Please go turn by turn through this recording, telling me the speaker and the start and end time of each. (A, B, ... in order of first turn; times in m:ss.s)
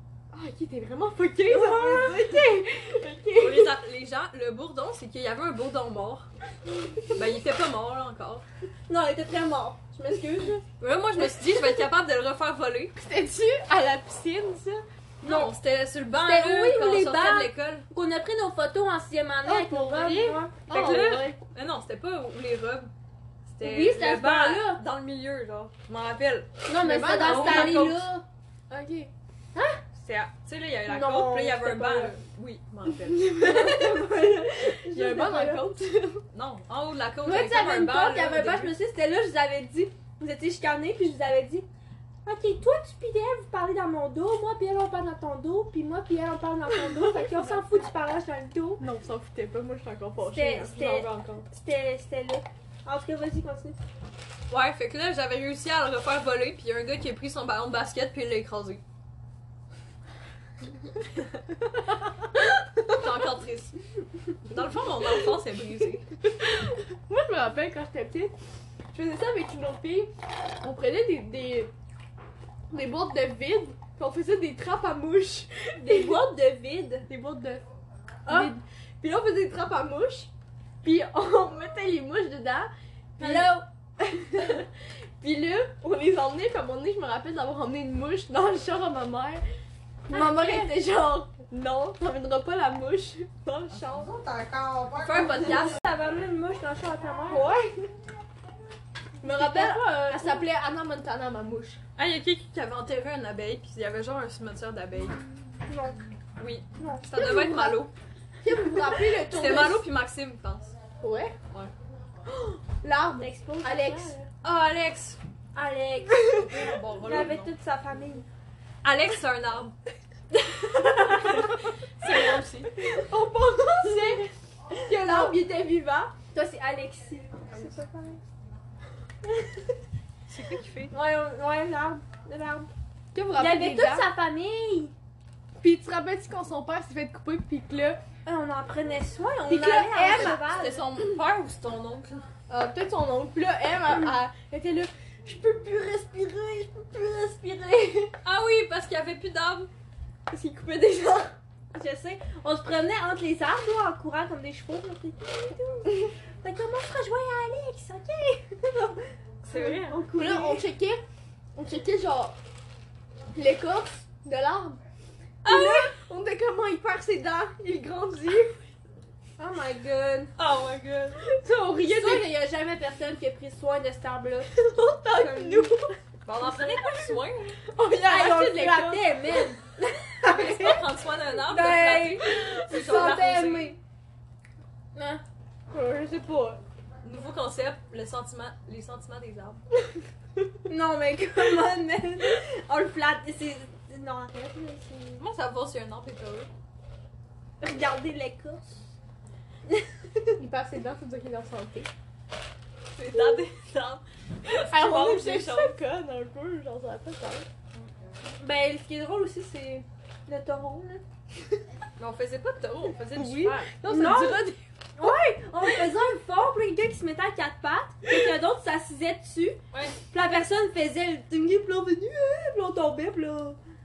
0:00.3-0:03.7 A
0:01.4-0:02.5 B
0:03.4-0:06.3 C
0:07.1-0:08.4 C
0:08.9-0:10.6 B
0:10.8-0:13.0 C
0:13.0-0:14.8 A
0:15.2-0:15.5 B
0:15.2-0:17.8 C
0:16.1-0:20.6 B
0:19.4-0:21.4 A
0:20.7-0:22.9 C
0:23.4-0:26.5 C
0:23.6-0:24.8 B
0:26.7-0:28.2 B
0:26.8-0:28.1 A
0:27.2-0:28.0 C
0:28.7-0:29.1 A
0:29.5-0:29.8 B
0:29.9-0:33.8 C
0:30.9-0:32.2 B
0:33.2-0:33.9 A
0:33.4-0:35.6 B
0:34.9-0:36.2 A
0:36.3-0:38.7 C
0:37.2-0:41.7 B
0:42.2-0:48.8 B
0:46.9-0:47.7 A
0:48.8-0:51.0 A
0:50.2-0:53.8 B
0:50.8-0:51.4 C
0:54.5-0:58.8 C
1:02.9-1:03.8 C
1:04.4-1:06.1 C
1:06.4-1:08.3 A
1:08.9-1:11.7 A
1:12.7-1:16.2 A
1:15.8-1:17.1 B
1:17.1-1:17.6 A
1:18.2-1:18.5 B
1:18.2-1:20.3 A
1:20.8-1:24.7 A
1:23.2-1:23.6 B
1:25.2-1:29.4 A
1:30.1-1:34.2 A
1:30.1-1:30.8 B
1:35.0-1:35.8 C
1:35.3-1:37.9 B
1:37.3-1:37.6 A
1:39.2-1:41.8 A
1:39.2-1:40.5 B
1:42.0-1:45.2 C
1:45.7-1:46.0 B
1:46.3-1:47.9 C
1:46.8-1:47.1 B
1:47.0-1:47.8 A
1:48.4-1:49.8 A
1:49.3-1:50.8 C
1:51.0-1:51.4 A
1:52.8-1:54.2 A
1:53.2-1:54.2 B
1:54.4-1:55.2 C
1:55.5-1:56.5 B
1:56.2-1:57.5 C
1:57.0-1:58.3 B
1:58.8-1:59.8 C
2:00.7-2:02.7 C
2:01.0-2:01.4 B
2:02.0-2:04.3 A
2:02.9-2:05.4 B
2:04.8-2:06.2 A
2:06.3-2:08.2 B
2:09.2-2:09.7 B
2:10.3-2:10.9 C
2:10.9-2:12.7 B
2:13.1-2:14.1 A
2:13.4-2:14.9 B
2:15.6-2:18.0 A
2:18.2-2:20.8 B
2:19.5-2:21.2 A
2:21.0-2:22.3 C
2:22.5-2:28.1 A
2:28.2-2:29.7 C
2:30.3-2:31.3 A
2:31.7-2:40.6 B
2:39.4-2:40.0 C
2:40.1-2:41.0 A
2:41.6-2:42.4 A
2:43.3-2:44.8 A
2:45.4-2:45.9 C
2:45.4-2:48.6 A
2:49.4-2:50.3 B
2:50.4-2:51.2 C
2:51.3-2:52.3 A
2:51.9-2:55.8 B
2:54.8-2:55.9 A
2:56.2-2:57.6 C
2:57.7-2:59.5 A
2:58.0-3:00.8 B
3:00.2-3:03.7 C
3:01.4-3:03.8 B
3:04.9-3:05.2 B
3:05.7-3:06.6 A
3:07.0-3:09.6 C
3:10.7-3:15.2 B
3:15.2-3:16.5 C
3:17.6-3:18.8 B
3:19.7-3:20.2 B
3:20.4-3:21.9 A
3:22.9-3:25.8 C
3:24.5-3:27.5 A
3:28.4-3:31.0 B
3:32.0-3:33.7 C
3:33.1-3:34.6 A
3:33.9-3:39.6 B
3:39.7-3:40.0 C
3:40.1-3:43.6 B